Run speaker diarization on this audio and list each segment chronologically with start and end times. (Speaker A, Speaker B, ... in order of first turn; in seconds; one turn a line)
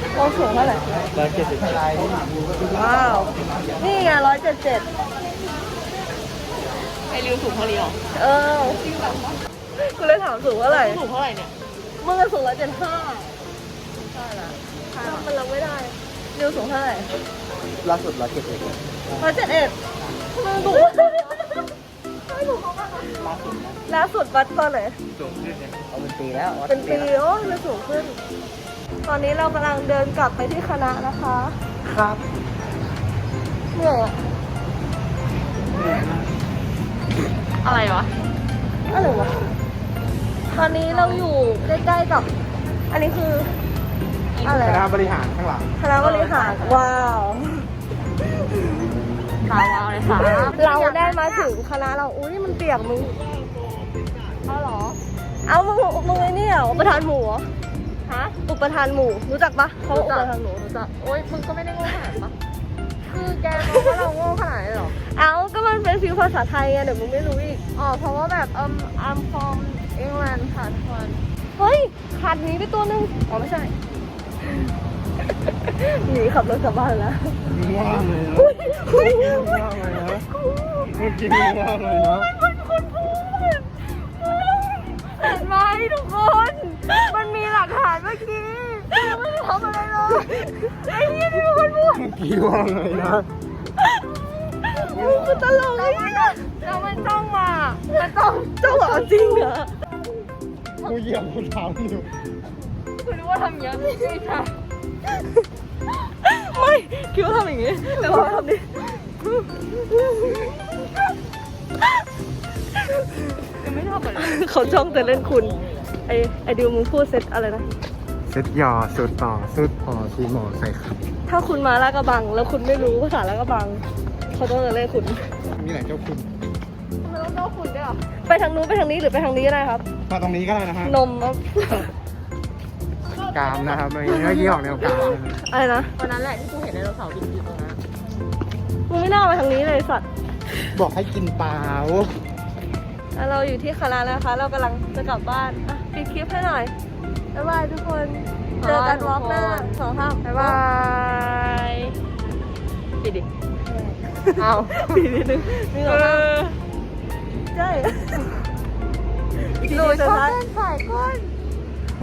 Speaker A: 0.1-0.9
Speaker B: 1.1-2.8
Speaker A: 2.6-4.9
Speaker C: 7.1-8.0
Speaker A: 8.1-11.0
Speaker C: 10.7-11.5
Speaker A: 12.0-13.4
Speaker C: 14.1-15.3
Speaker A: 15.0-17.1
Speaker B: 17.8-18.9
Speaker A: 19.2-19.8
Speaker A: 20.4-21.4
Speaker A: 22.3-23.1
Speaker A: 23.9-25.0
Speaker B: 25.9-26.9
Speaker A: 26.7-28.2
Speaker A: 29.1-31.6
Speaker B: 31.9-32.2
Speaker A: 33.7-34.2
Speaker C: 37.6-38.1
Speaker A: 38.9-39.4
Speaker A: 40.5-42.3
Speaker C: 40.6-41.3
Speaker A: 42.9-43.5
Speaker A: 44.4-44.9
Speaker B: 44.5-45.7
Speaker A: 45.8-47.7
Speaker C: 46.0-46.9
Speaker C: 49.4-51.5
Speaker A: 50.1-53.1
Speaker C: 54.5-55.0
Speaker A: 55.4-57.5
Speaker C: 58.1-58.4
Speaker A: 58.5-60.4
Speaker C: 59.9-62.3
Speaker C: 63.0-65.0
Speaker A: 63.6-64.0
Speaker A: 64.9-67.6
Speaker C: 67.7-71.2
Speaker A: 71.6-73.1
Speaker C: 73.3-73.7
Speaker A: 75.7-77.4
Speaker B: 77.5-80.3
Speaker A: 78.4-79.5
Speaker A: 80.3-80.9
Speaker B: 80.9-82.3
Speaker A: 82.6-83.1
Speaker C: 85.2-86.0
Speaker A: 85.2-89.1
Speaker C: 87.1-87.7
Speaker C: 88.9-92.0
Speaker A: 90.2-91.1
Speaker B: 91.9-93.3
Speaker A: 94.7-96.6
Speaker C: 94.9-99.4
Speaker A: 97.9-99.7
Speaker B: 100.8-102.1
Speaker C: 103.0-104.6
Speaker A: 106.2-108.7
Speaker C: 108.0-108.4
Speaker C: 109.0-109.5
Speaker C: 113.6-115.8
Speaker A: 114.2-117.7
Speaker B: 118.3-121.0
Speaker A: 121.3-125.3
Speaker B: 125.5-126.3
Speaker C: 127.0-128.1
Speaker A: 128.2-129.8
Speaker B: 130.1-131.0
Speaker A: 130.8-131.9
Speaker C: 133.2-135.2
Speaker B: 133.3-135.4
Speaker A: 135.3-135.9
Speaker C: 136.0-137.8
Speaker A: 138.9-140.1
Speaker B: 140.7-142.2
Speaker A: 143.2-146.7
Speaker A: 147.3-150.6
Speaker C: 148.6-151.9
Speaker C: 153.0-153.3
Speaker A: 153.7-156.3
Speaker C: 154.4-155.1
Speaker C: 155.8-156.6
Speaker A: 157.5-158.3
Speaker C: 159.6-161.3
Speaker A: 159.6-160.4